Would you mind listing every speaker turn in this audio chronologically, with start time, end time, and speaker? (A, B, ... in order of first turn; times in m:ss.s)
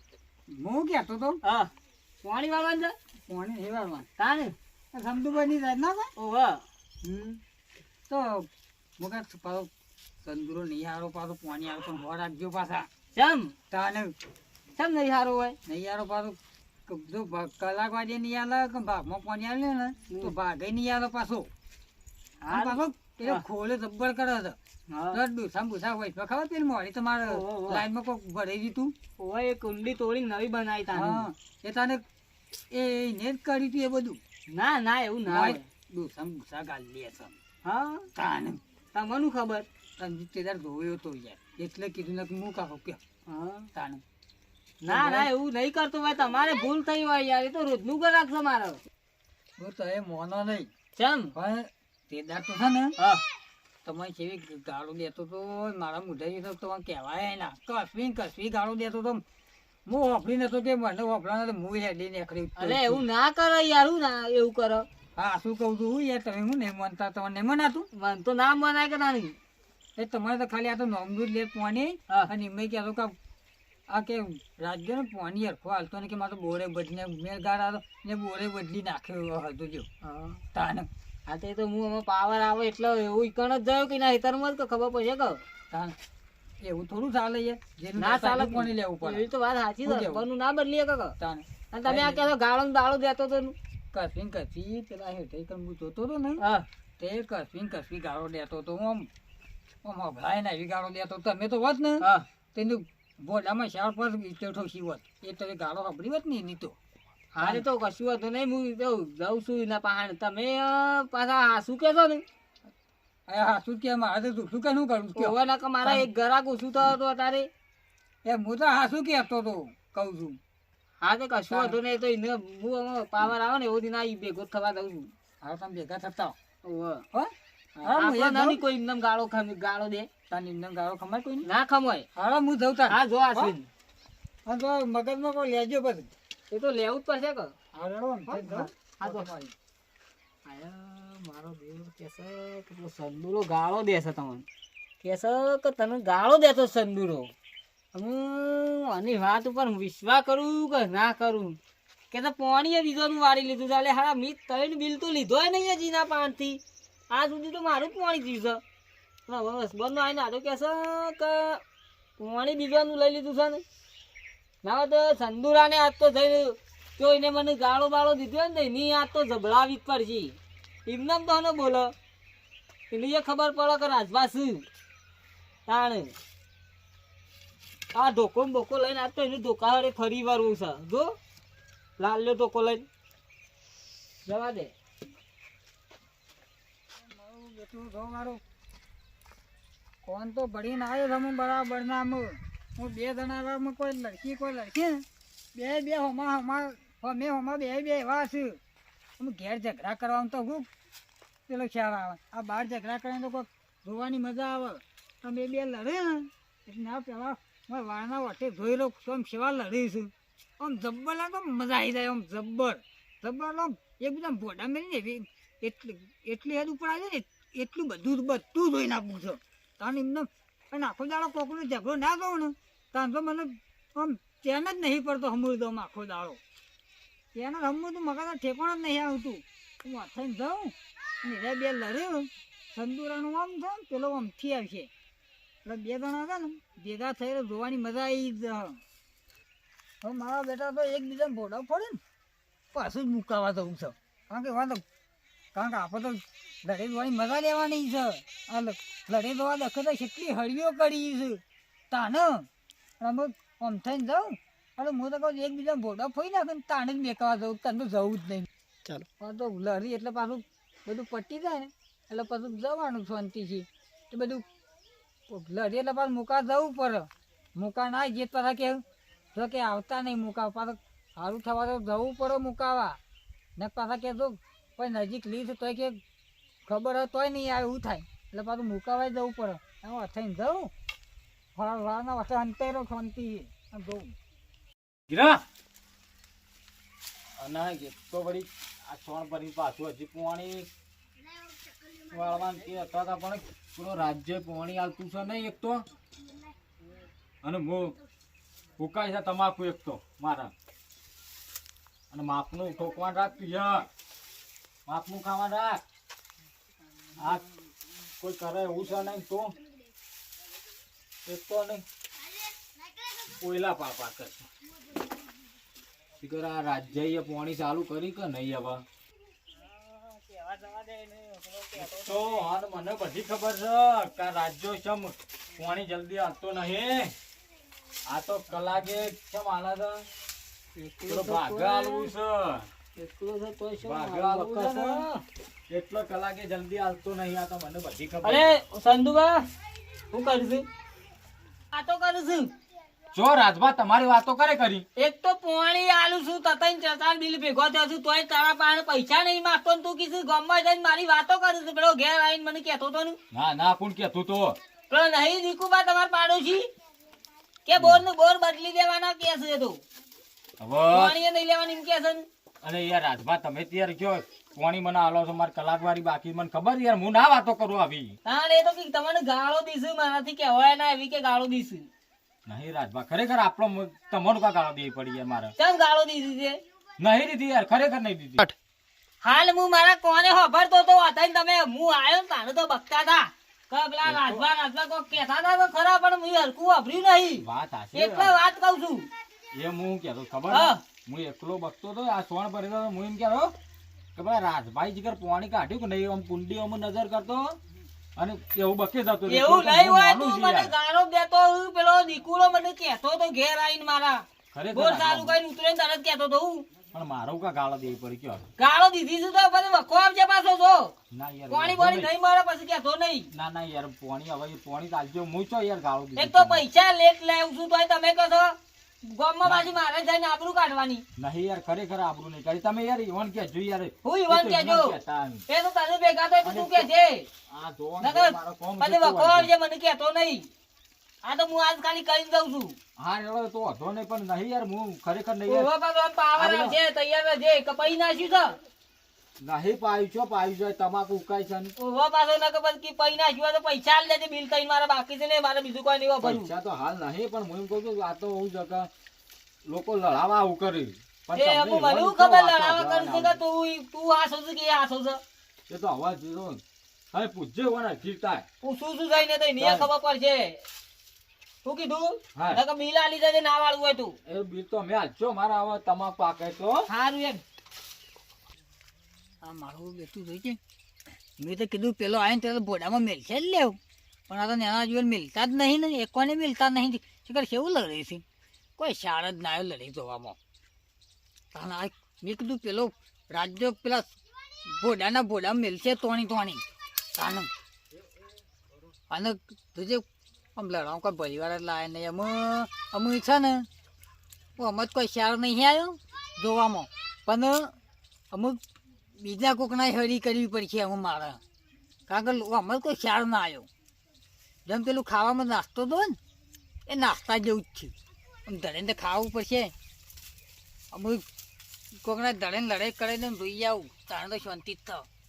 0:00.5-0:01.4 A
0:01.4-0:01.7 B
0:02.2-0:02.9 B
0:03.3-0:04.1 A
0:04.2-0:04.5 B
0:04.9-0:06.1 A
0:06.2-0:06.6 B
0:07.0-0:07.4 A
0:08.1-0:08.5 A
0:09.0-0:09.7 A
0:10.2-0:12.9 A
0:13.1-0:13.5 B
0:13.7-0:14.1 A
0:14.8-0:15.6 B
0:15.7-0:21.5 A
0:22.4-0:23.4 B
0:22.5-0:24.6 A
0:24.9-0:25.2 B
0:25.1-0:28.9 A
0:27.2-0:27.8 B
0:29.2-0:31.3 B
0:30.9-0:32.0 A
0:32.7-0:34.2 A
0:34.5-0:35.6 B
0:35.2-0:37.4 A
0:37.6-0:38.0 B
0:38.1-0:38.6 A
0:38.9-0:39.6 B
0:40.0-0:43.0 A
0:43.3-0:43.7 B
0:43.8-0:44.0 A
0:44.8-0:48.8 B
0:44.9-0:45.3 A
0:49.6-0:50.7 A
0:51.0-0:51.3 B
0:51.3-0:52.9 A
0:53.8-0:59.2 A
0:59.9-1:03.0 A
1:02.6-1:04.9 B
1:05.2-1:07.9 A
1:07.9-1:09.4 B
1:10.0-1:13.1 A
1:13.9-1:19.9 A
1:20.0-1:20.4 B
1:20.5-1:20.9 A
1:21.3-1:25.4 B
1:26.6-1:29.3 A
1:28.0-1:31.1 B
1:29.8-1:30.2 A
1:31.2-1:32.2 A
1:31.7-1:33.6 B
1:33.9-1:36.4 A
1:36.4-1:36.6 B
1:37.0-1:39.1 A
1:39.8-1:46.8 A
1:47.4-1:52.2 B
1:53.3-1:56.1 A
1:55.2-1:57.5 B
1:58.2-2:00.4 A
2:01.0-2:05.1 B
2:01.5-2:01.8 A
2:05.4-2:06.4 A
2:06.6-2:07.0 B
2:07.1-2:08.6 A
2:07.8-2:10.1 B
2:10.3-2:11.5 A
2:11.4-2:12.1 B
2:12.1-2:13.5 A
2:12.9-2:13.7 B
2:14.4-2:16.1 A
2:16.5-2:17.5 B
2:17.8-2:19.5 A
2:18.3-2:19.3 B
2:20.4-2:24.4 B
2:25.0-2:27.3 B
2:27.9-2:31.6 B
2:32.1-2:36.6 B
2:37.1-2:38.6 B
2:39.3-2:41.6 B
2:42.2-2:43.6 B
2:44.6-2:51.9 B
2:52.9-2:54.6 B
2:55.7-2:56.1 B
2:57.9-3:01.1 B
3:02.0-3:02.9 B
3:04.2-3:04.7 B
3:07.0-3:08.4 A
3:10.0-3:18.6 A
3:19.2-3:20.7 A
3:21.5-3:46.4 A
3:47.4-3:54.9 A
3:55.6-3:58.8 A
4:00.0-4:02.0 A
4:02.7-4:04.8 A
4:05.5-4:12.5 A
4:13.0-4:18.5 A
4:19.2-4:24.4 A
4:25.3-4:28.8 A
4:29.3-4:33.0 A
4:33.6-4:36.0 A
4:36.6-4:40.7 A
4:41.6-4:44.1 A
4:45.1-4:45.4 C
4:47.4-4:50.7 C
4:52.1-4:55.8 C
4:57.4-4:58.0 C
4:58.8-5:00.5 C
5:02.1-5:03.9 C
5:04.9-5:05.8 C
5:07.2-5:07.4 C
5:08.2-5:09.5 C
5:11.2-5:11.8 C
5:13.4-5:14.5 C
5:16.2-5:18.8 C
5:19.6-5:22.4 B
5:21.7-5:27.1 C
5:28.1-5:30.0 C
5:30.8-5:32.1 B
5:31.1-5:32.7 C
5:33.0-5:35.2 B
5:33.8-5:35.0 C
5:35.7-5:38.5 C
5:38.2-5:39.4 B
5:40.1-5:40.6 B
5:41.7-5:42.5 B
5:43.1-5:44.8 C
5:45.0-5:53.2 B
5:53.3-5:54.6 C
5:54.9-5:56.7 B
5:57.6-5:59.8 B
5:57.8-5:58.0 C
6:00.6-6:01.1 C
6:00.9-6:02.2 B
6:02.6-6:08.2 C
6:08.2-6:11.9 B
6:12.5-6:15.5 C
6:15.6-6:16.6 B
6:17.0-6:18.5 C
6:19.2-6:29.1 B
6:24.0-6:24.4 C
6:27.4-6:28.4 C
6:29.5-6:33.5 C
6:30.5-6:30.8 B
6:34.2-6:37.6 C
6:38.2-6:40.7 C
6:39.2-6:46.6 B
6:44.5-6:45.4 C
6:46.9-6:48.5 C
6:48.6-6:50.9 B
6:51.1-6:52.1 C
6:51.5-6:53.3 B
6:53.3-6:56.6 C
6:56.2-6:58.5 B
6:59.0-7:01.0 B
6:59.4-6:59.8 C
7:01.2-7:05.4 C
7:04.0-7:05.0 B
7:05.5-7:07.3 B
7:06.4-7:06.9 C
7:07.5-7:09.5 C
7:08.0-7:10.5 B
7:11.2-7:12.8 B
7:13.0-7:15.7 C
7:15.5-7:18.6 B
7:16.4-7:16.8 C
7:19.4-7:21.7 C
7:21.8-7:26.5 B
7:26.2-7:28.9 C
7:29.6-7:33.4 C
7:31.4-7:35.2 B
7:35.7-7:36.6 C
7:37.1-7:38.4 C
7:38.6-7:40.6 B
7:39.6-7:39.9 C
7:41.6-7:44.2 B
7:42.4-7:42.6 C
7:44.2-7:46.9 C
7:46.9-7:47.4 B
7:49.4-7:50.6 A
7:51.4-7:53.8 A
7:54.3-7:58.2 A
7:58.8-8:00.4 A
8:01.5-8:04.1 A
8:04.6-8:06.6 A
8:07.1-8:07.5 A
8:09.1-8:13.7 A
8:14.6-8:17.7 A
8:18.3-8:18.6 A
8:19.2-8:21.4 A
8:22.1-8:23.7 A
8:24.6-8:26.2 A
8:26.9-8:27.9 A
8:28.5-8:29.7 A
8:30.9-8:31.2 A
8:32.0-8:35.1 A